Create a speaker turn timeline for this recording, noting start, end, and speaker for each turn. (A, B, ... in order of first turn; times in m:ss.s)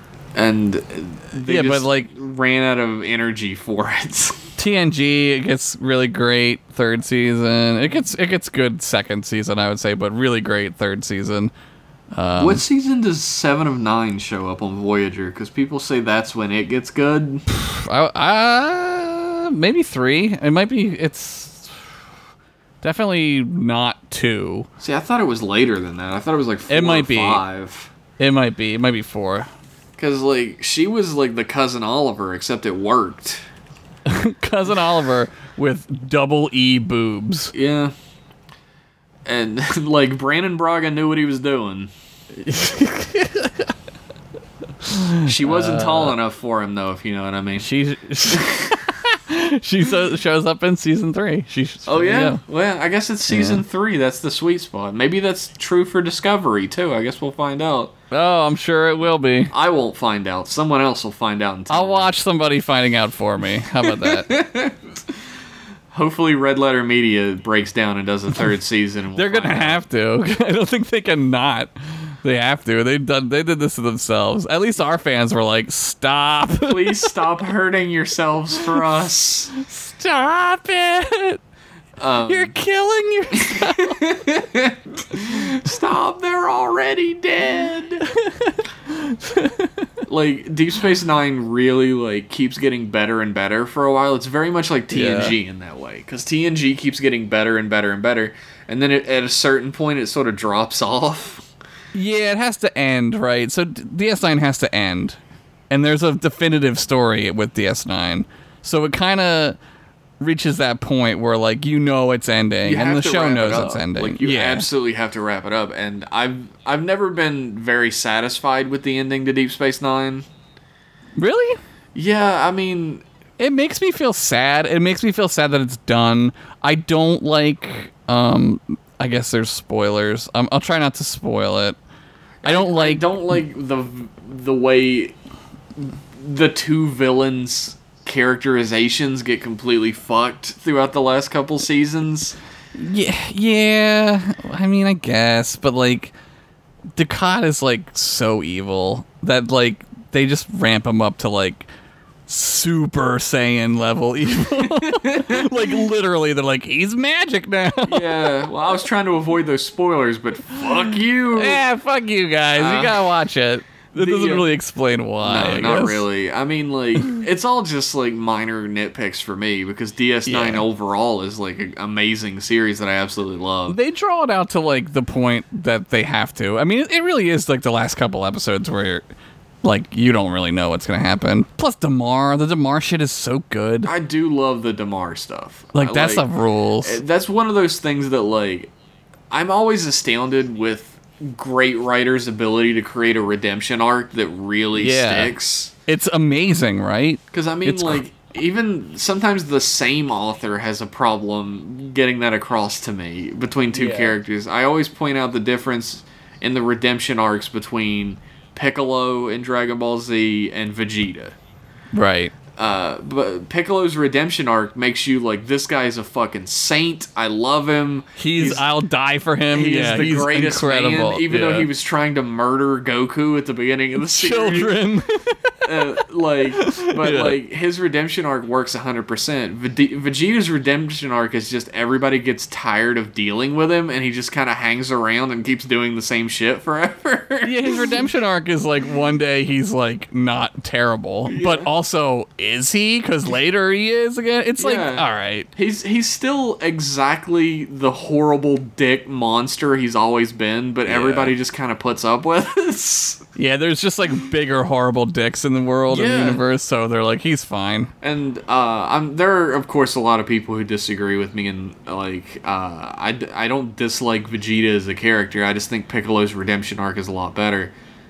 0:00.4-0:04.5 A
0:01.4-0:02.1 B
0:04.6-0:11.5 B
0:12.1-0:12.6 B
0:12.4-0:17.4 A
0:17.5-0:21.8 B
0:22.8-0:24.7 B
0:24.8-0:27.9 A
0:26.7-0:27.4 B
0:28.2-0:29.5 B
0:30.0-0:33.4 A
0:34.0-0:37.5 B
0:37.5-0:37.9 A
0:39.2-0:41.9 A
0:42.4-0:43.7 B
0:44.8-0:46.2 B
0:45.2-0:47.7 A
0:47.6-0:52.4 B
0:48.3-0:48.8 A
0:51.9-0:57.9 A
0:53.3-0:53.6 B
0:58.1-0:59.5 B
0:59.5-1:02.1 A
1:01.7-1:04.3 B
1:03.8-1:04.8 A
1:05.9-1:09.8 A
1:09.2-1:17.1 B
1:16.6-1:19.5 A
1:19.6-1:21.4 B
1:22.0-1:22.6 A
1:22.3-1:24.0 B
1:23.4-1:28.1 A
1:28.1-1:29.8 B
1:30.1-1:41.5 A
1:34.9-1:35.4 B
1:41.9-1:45.2 B
1:45.7-1:49.6 B
1:50.2-1:54.7 B
1:52.6-2:00.3 A
2:01.2-2:01.6 B
2:02.0-2:03.0 A
2:03.4-2:11.8 B
2:12.4-2:15.2 A
2:12.4-2:13.1 B
2:15.8-2:22.4 A
2:22.8-2:26.1 B
2:27.0-2:31.7 B
2:32.3-2:38.4 B
2:34.6-2:35.5 A
2:37.9-2:41.6 A
2:41.3-2:46.0 B
2:42.6-2:43.1 A
2:43.9-2:44.5 A
2:45.2-2:53.8 A
2:50.3-2:50.6 B
2:53.7-2:59.0 B
2:59.6-3:03.9 B
3:03.8-3:06.3 A
3:05.7-3:07.0 B
3:06.8-3:08.7 A
3:09.3-3:15.7 A
3:14.8-3:15.3 B
3:15.9-3:18.0 B
3:17.3-3:31.4 A
3:23.7-3:24.2 B
3:31.9-3:32.3 B
3:32.6-3:38.7 A
3:38.2-3:41.7 B
3:39.5-3:44.8 A
3:44.0-3:45.5 B
3:45.6-3:58.0 A
3:46.6-3:47.4 B
3:57.4-4:05.5 B
4:01.3-4:01.7 A
4:04.6-4:13.2 A
4:10.8-4:11.3 B
4:13.4-4:17.9 B
4:15.9-4:16.4 A
4:18.0-4:27.7 A